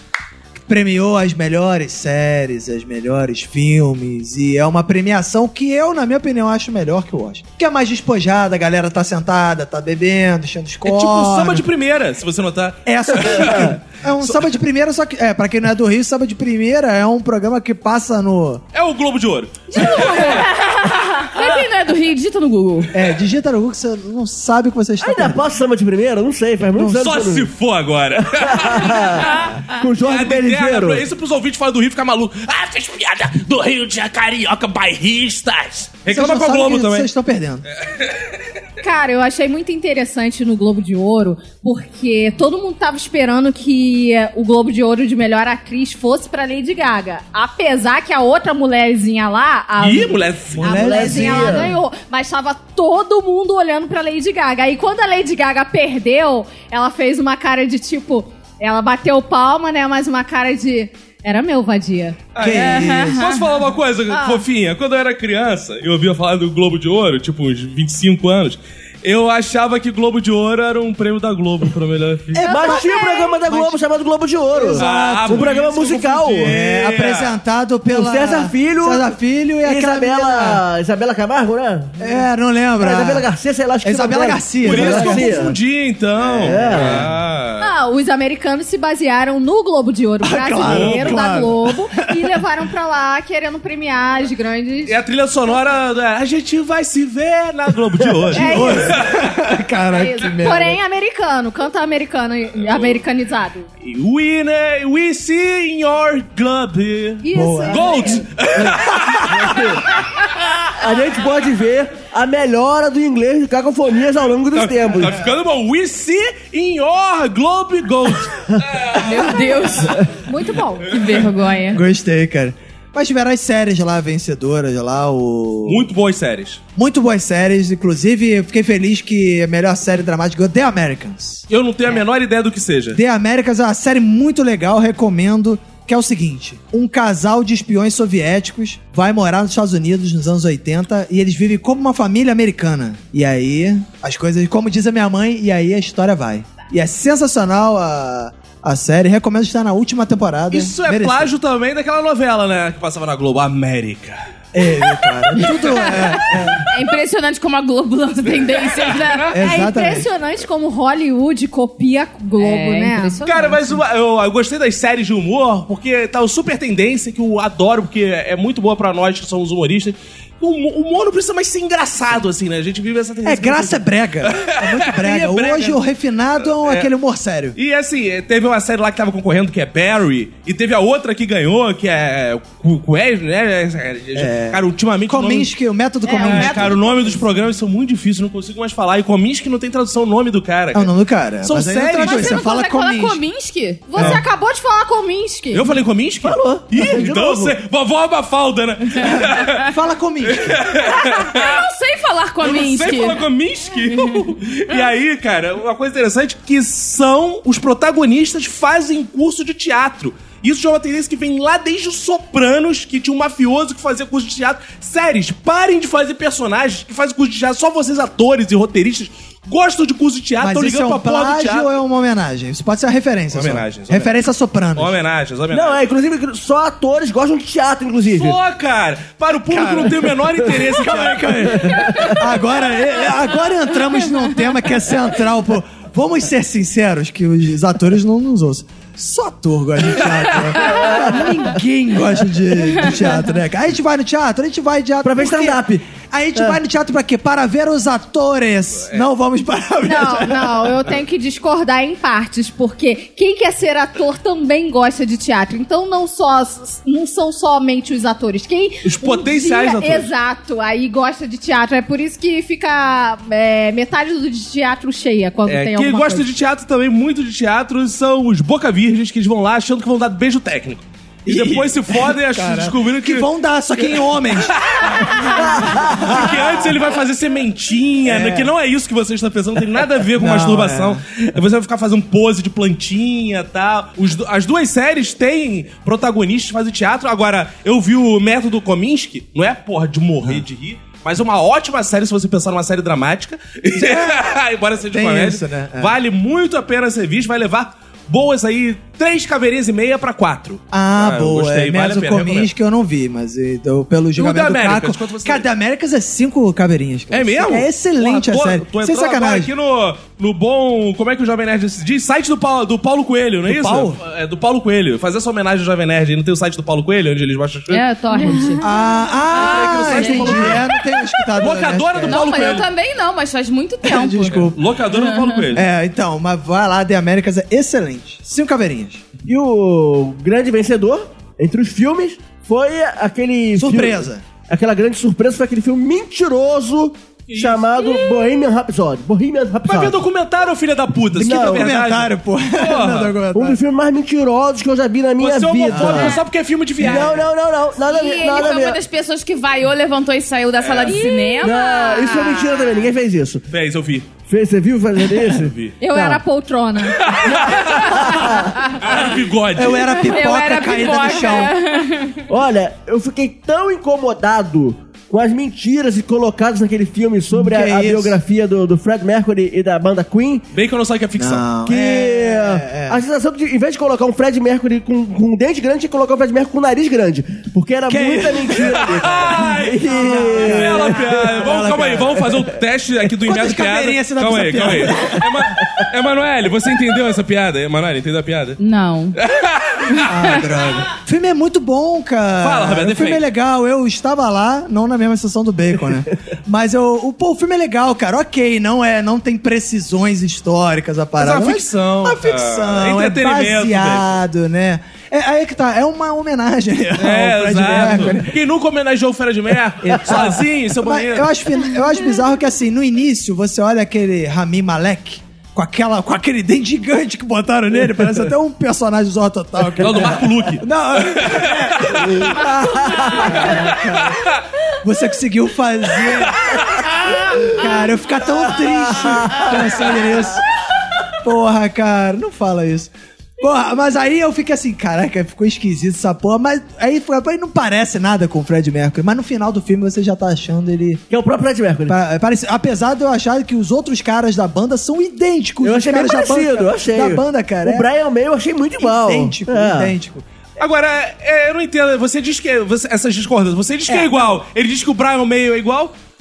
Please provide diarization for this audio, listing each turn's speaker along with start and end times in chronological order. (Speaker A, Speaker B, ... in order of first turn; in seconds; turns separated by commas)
Speaker A: 0.6-11.6, Speaker B: 10.8-14.4, Speaker A: 12.8-18.6, Speaker C: 13.3-13.7, Speaker B: 18.7-20.4, Speaker D: 19.7-22.9, Speaker E: 19.9-21.0, Speaker A: 22.9-25.5, Speaker C: 25.0-27.5, Speaker A: 26.8-27.0, Speaker B: 26.9-37.1, Speaker C: 28.2-31.1, Speaker A: 36.1-37.6, Speaker B: 37.8-38.4, Speaker E: 38.8-62.2, Speaker B: 49.8-50.9, Speaker A: 50.5-51.8, Speaker C: 50.7-51.7, Speaker B: 62.3-72.4, Speaker A: 62.4-63.2, Speaker D: 62.5-63.5, Speaker E: 64.1-64.4, Speaker A: 72.3-72.8, Speaker E: 72.4-73.4, Speaker C: 72.4-76.5, Speaker A: 73.4-73.8, Speaker A: 74.5-75.5, Speaker B: 74.7-77.3, Speaker A: 76.4-80.6, Speaker C: 77.9-79.0, Speaker C: 79.6-82.2, Speaker A: 82.0-83.3, Speaker C: 82.8-85.6, Speaker A: 83.8-85.5, Speaker B: 84.6-87.7, Speaker C: 86.2-87.1, Speaker A: 86.5-87.0, Speaker E: 87.6-95.0, Speaker A: 90.2-92.4, Speaker B: 90.6-91.2, Speaker B: 94.8-99.3, Speaker E: 98.3-99.0, Speaker A: 98.3-100.8, Speaker E: 100.0-103.7, Speaker B: 102.6-103.0, Speaker B: 103.8-109.8, Speaker E: 107.2-108.2, Speaker A: 107.3-108.2, Speaker A: 108.7-109.4, Speaker C: 109.3-109.8, Speaker C: 110.8-115.2, Speaker B: 114.5-119.3, Speaker D: 118.9-120.0, Speaker E: 120.3-120.9, Speaker D: 120.8-121.8, Speaker A: 121.7-125.9, Speaker B: 125.7-126.6, Speaker A: 126.8-131.4, Speaker B: 131.5-133.0, Speaker A: 132.9-151.3, Speaker B: 150.5-154.2, Speaker A: 154.5-156.7, Speaker D: 155.4-159.3, Speaker B: 158.9-159.2, Speaker A: 159.3-160.1, Speaker E: 159.4-163.6, Speaker D: 162.4-163.8, Speaker B: 163.2-175.8, Speaker A: 173.2-177.6, Speaker B: 176.6-176.9, Speaker B: 177.5-185.5, Speaker A: 184.1-186.8, Speaker E: 186.0-187.2, Speaker D: 186.1-186.4, Speaker B: 186.1-192.3, Speaker A: 190.7-193.2, Speaker D: 192.0-193.9, Speaker E: 193.9-195.7, Speaker B: 193.9-194.2, Speaker A: 194.0-194.2, Speaker B: 195.5-199.6, Speaker C: 196.2-197.5, Speaker D: 199.0-199.6, Speaker A: 199.0-200.6, Speaker B: 200.2-201.6, Speaker D: 200.8-203.2, Speaker B: 202.4-221.7, Speaker D: 203.9-204.2, Speaker A: 220.4-224.9, Speaker B: 223.3-224.2, Speaker B: 224.7-225.8, Speaker C: 225.5-228.4, Speaker B: 228.1-231.7, Speaker A: 229.5-250.8, Speaker C: 231.5-232.2, Speaker B: 240.0-240.5, Speaker D: 240.7-241.5, Speaker C: 240.8-241.3, Speaker D: 242.7-243.2, Speaker C: 245.0-245.8, Speaker E: 249.8-266.3, Speaker B: 258.8-260.1, Speaker B: 265.4-273.3, Speaker A: 271.2-274.5, Speaker B: 274.3-302.5, Speaker C: 275.3-276.2, Speaker A: 275.5-276.5, Speaker A: 278.1-278.5, Speaker A: 280.2-281.0, Speaker A: 293.8-294.3, Speaker A: 294.9-295.9, Speaker A: 300.7-309.5, Speaker B: 304.1-305.4, Speaker B: 307.1-317.8, Speaker A: 313.4-314.0, Speaker D: 317.7-321.0, Speaker E: 317.9-318.7, Speaker A: 318.6-322.2, Speaker B: 319.3-320.7, Speaker B: 321.4-322.7, Speaker D: 322.1-325.4, Speaker A: 323.8-324.6, Speaker B: 324.3-325.6, Speaker A: 325.5-329.0, Speaker C: 329.2-340.0, Speaker A: 333.6-334.2, Speaker B: 337.3-338.2, Speaker B: 339.6-343.1, Speaker C: 341.1-341.7, Speaker A: 341.4-343.6, Speaker C: 343.3-346.2, Speaker B: 345.2-347.3, Speaker A: 345.7-346.2, Speaker C: 346.8-348.8, Speaker A: 346.8-347.1, Speaker D: 347.8-352.6, Speaker B: 350.6-351.1, Speaker E: 350.9-351.6, Speaker C: 351.4-353.4, Speaker B: 353.5-354.1, Speaker C: 354.3-356.2, Speaker B: 355.1-355.8, Speaker E: 355.8-357.6, Speaker B: 356.8-360.1, Speaker C: 357.8-358.6, Speaker A: 359.5-361.5, Speaker D: 360.0-362.3, Speaker C: 362.3-370.5, Speaker A: 367.3-368.2, Speaker B: 370.5-371.5, Speaker A: 371.2-373.0, Speaker C: 371.6-381.4, Speaker A: 377.9-378.8, Speaker B: 378.5-388.6, Speaker A: 379.9-382.3, Speaker A: 383.2-385.2, Speaker C: 385.1-385.9, Speaker D: 388.6-389.2, Speaker B: 389.2-390.5, Speaker A: 390.1-408.4, Speaker B: 392.4-393.2, Speaker B: 401.2-404.2, Speaker B: 407.0-411.3, Speaker A: 409.9-424.2, Speaker B: 419.8-422.2, Speaker C: 422.1-423.5, Speaker B: 423.2-424.4, Speaker A: 424.8-426.6, Speaker B: 426.3-427.1, Speaker A: 427.4-430.4, Speaker A: 431.2-441.0, Speaker C: 441.1-441.9, Speaker A: 441.9-447.9, Speaker C: 445.6-449.9, Speaker A: 448.8-450.3, Speaker B: 450.6-455.9